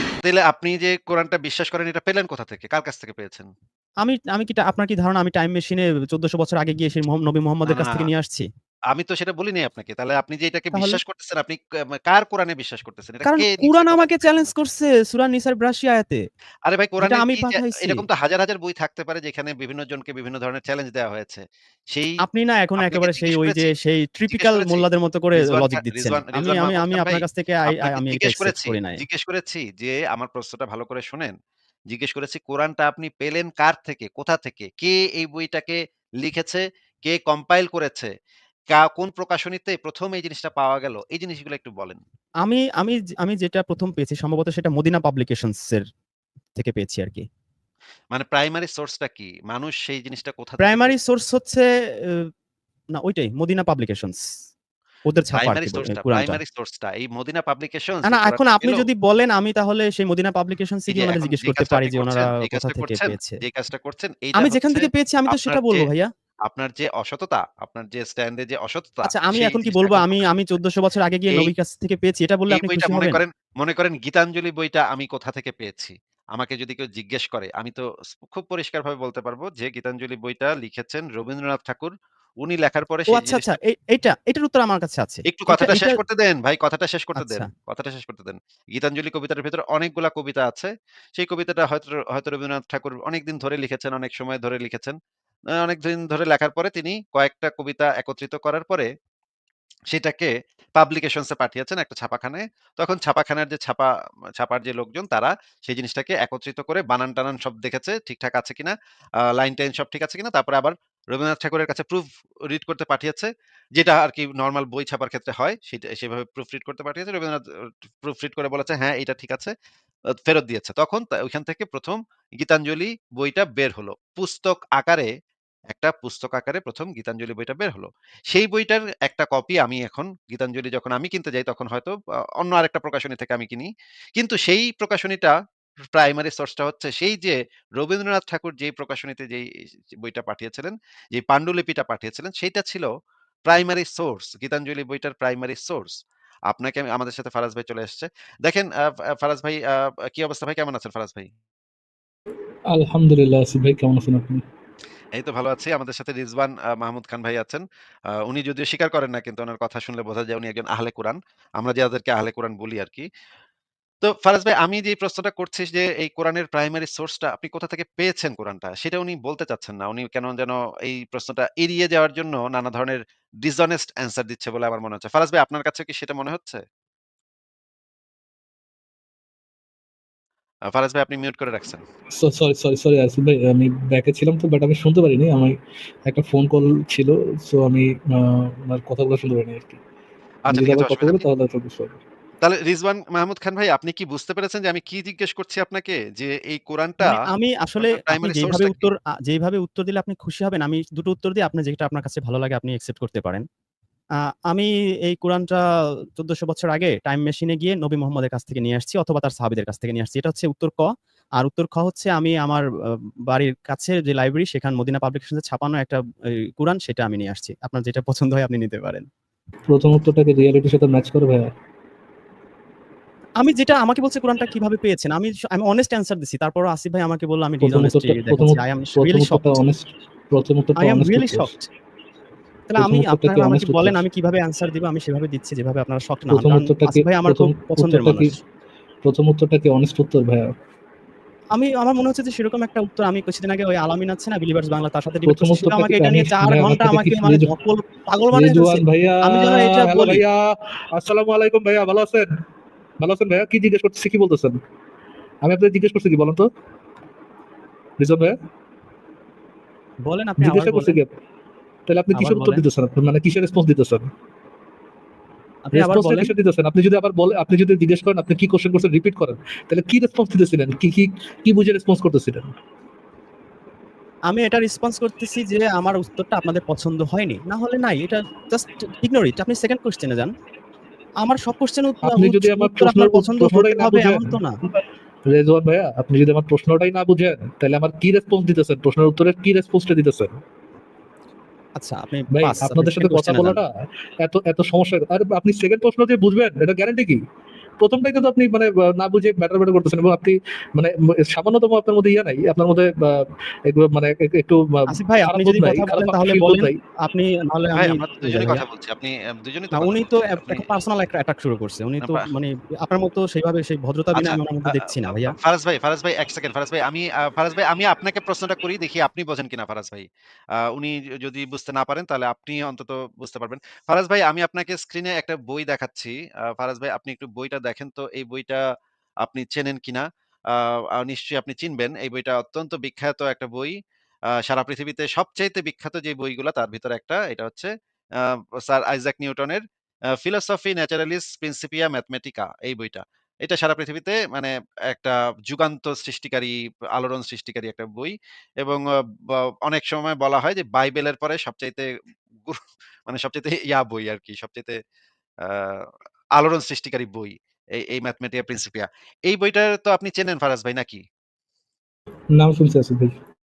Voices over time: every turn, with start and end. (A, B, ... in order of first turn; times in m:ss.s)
0:00.2-0:03.5 A
0:04.0-0:08.5 B
0:07.6-0:08.1 A
0:08.9-0:14.2 A
0:10.7-0:11.0 B
0:13.2-0:16.2 B
0:16.6-0:22.2 A
0:17.0-0:18.0 B
0:22.2-0:29.0 B
0:22.8-0:23.7 A
0:24.3-0:24.8 A
0:25.4-0:31.3 A
0:31.9-0:38.1 A
0:38.7-0:42.0 A
0:42.4-0:45.8 B
0:46.6-0:47.3 B
0:48.1-0:50.9 A
0:50.6-0:52.3 B
0:52.9-0:54.3 B
0:55.1-0:56.4 B
0:55.3-0:58.8 A
0:58.0-1:03.4 B
1:00.9-1:05.8 A
1:04.4-1:06.1 B
1:06.5-1:10.2 A
1:09.0-1:13.2 B
1:12.5-1:23.4 A
1:23.1-1:26.0 B
1:25.3-1:35.0 A
1:27.2-1:27.5 B
1:35.6-1:38.9 A
1:39.9-1:57.4 A
1:58.0-1:59.5 A
2:00.1-2:05.1 A
2:05.7-2:15.3 A
2:15.9-2:22.9 A
2:23.4-2:25.9 A
2:26.5-2:31.3 A
2:32.7-2:34.4 C
2:35.1-2:43.1 A
2:44.0-2:56.6 A
3:00.7-3:01.8 A
3:02.2-3:05.6 C
3:06.1-3:09.8 C
3:10.5-3:11.2 A
3:10.5-3:12.0 C
3:12.4-3:17.1 A
3:17.0-3:23.4 B
3:17.8-3:18.8 A
3:24.5-3:25.6 B
3:26.2-3:39.0 B
3:39.7-3:41.5 C
3:43.4-3:49.6 B
3:47.6-3:51.5 C
3:50.8-3:51.7 B
3:52.7-3:58.4 B
3:52.8-3:54.0 C
3:56.3-3:58.3 C
3:59.0-4:00.5 C
4:01.5-4:10.2 B
4:05.3-4:07.5 C
4:08.3-4:12.4 C
4:13.0-4:14.6 C
4:15.4-4:16.5 C
4:18.0-4:18.4 C
4:20.0-4:21.0 B
4:20.4-4:21.2 C
4:21.9-4:24.1 C
4:22.1-4:22.6 B
4:25.6-4:26.3 B
4:25.7-4:32.5 C
4:34.3-4:40.3 B
4:41.2-4:44.6 B
4:42.0-4:50.4 C
4:51.8-4:53.6 B
4:52.3-4:57.2 C
4:57.8-5:06.8 C
5:04.9-5:08.6 B
5:07.7-5:10.6 A
5:09.7-5:15.3 B
5:14.1-5:20.1 A
5:20.6-5:28.6 A
5:29.2-5:33.7 A
5:34.4-5:39.6 A
5:40.1-5:51.8 A
5:52.4-5:54.8 A
5:55.4-6:01.0 A
6:02.3-6:03.2 C